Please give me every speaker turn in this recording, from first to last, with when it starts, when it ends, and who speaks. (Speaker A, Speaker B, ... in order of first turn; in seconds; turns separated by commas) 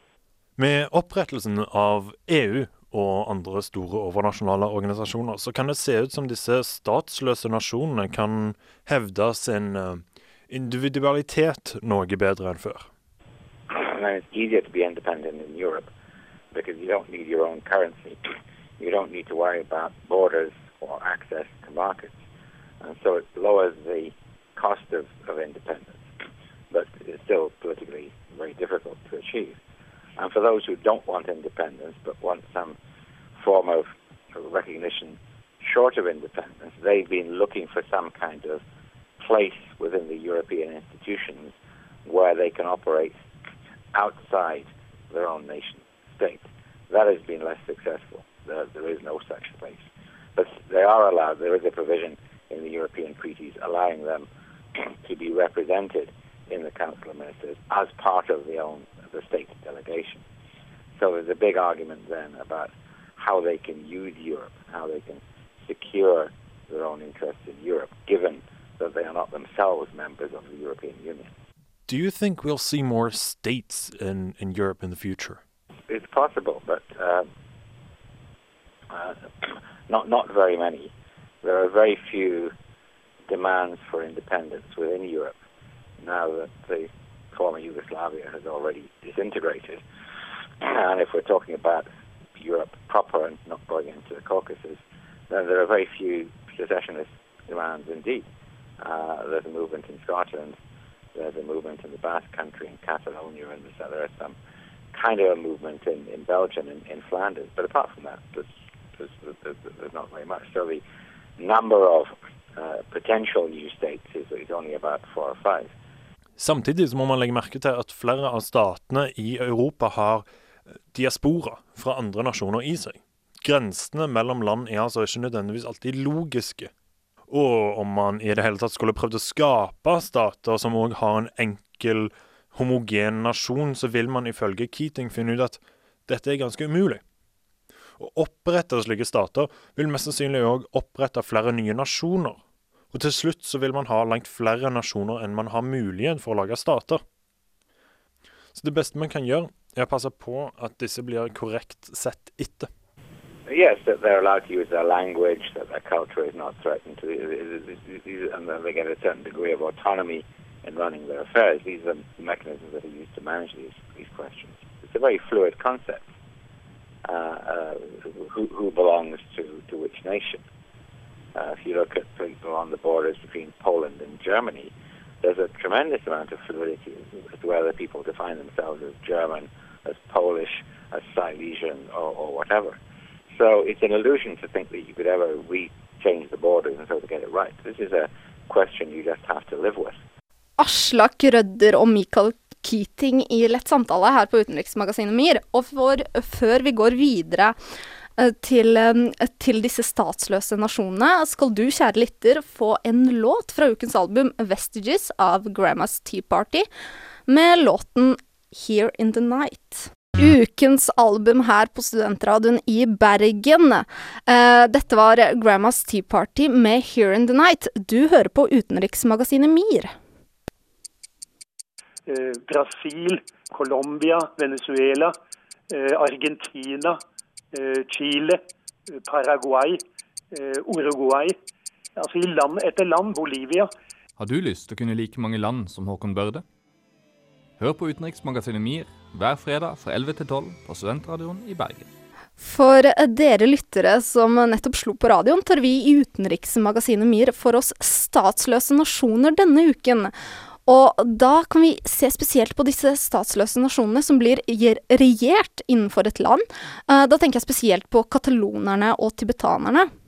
Speaker A: 0.6-12.9, Speaker B: 13.7-15.9, Speaker B: 16.5-18.2, Speaker B: 18.8-22.2, Speaker B: 22.8-26.0, Speaker B: 26.7-29.6, Speaker B: 30.2-32.8, Speaker B: 33.4-38.6, Speaker B: 39.2-41.5, Speaker B: 42.0-43.2, Speaker B: 43.9-49.8, Speaker B: 50.4-54.3, Speaker B: 54.8-60.2, Speaker B: 61.0-71.3, Speaker A: 71.9-75.4, Speaker B: 75.9-77.2, Speaker B: 78.9-80.9, Speaker B: 81.4-82.5, Speaker B: 83.3-85.3, Speaker B: 86.0-89.8, Speaker B: 90.6-98.2, Speaker B: 98.8-100.6, Speaker B: 101.1-104.3, Speaker B: 104.9-110.8, Speaker B: 111.4-115.7, Speaker A: 116.4-120.3, Speaker A: 120.9-126.7, Speaker A: 127.3-137.0, Speaker A: 138.0-147.0, Speaker A: 148.5-152.7, Speaker B: 153.5-166.1, Speaker B: 167.1-170.4, Speaker B: 171.3-182.8, Speaker B: 183.3-189.9, Speaker C: 190.6-197.6, Speaker C: 198.2-206.7, Speaker C: 207.3-219.9, Speaker D: 222.1-225.2, Speaker D: 225.7-227.0, Speaker D: 227.5-228.4, Speaker D: 228.9-231.4, Speaker D: 232.0-233.7, Speaker E: 234.2-236.4, Speaker E: 237.6-241.9, Speaker C: 242.4-250.1, Speaker C: 250.7-259.9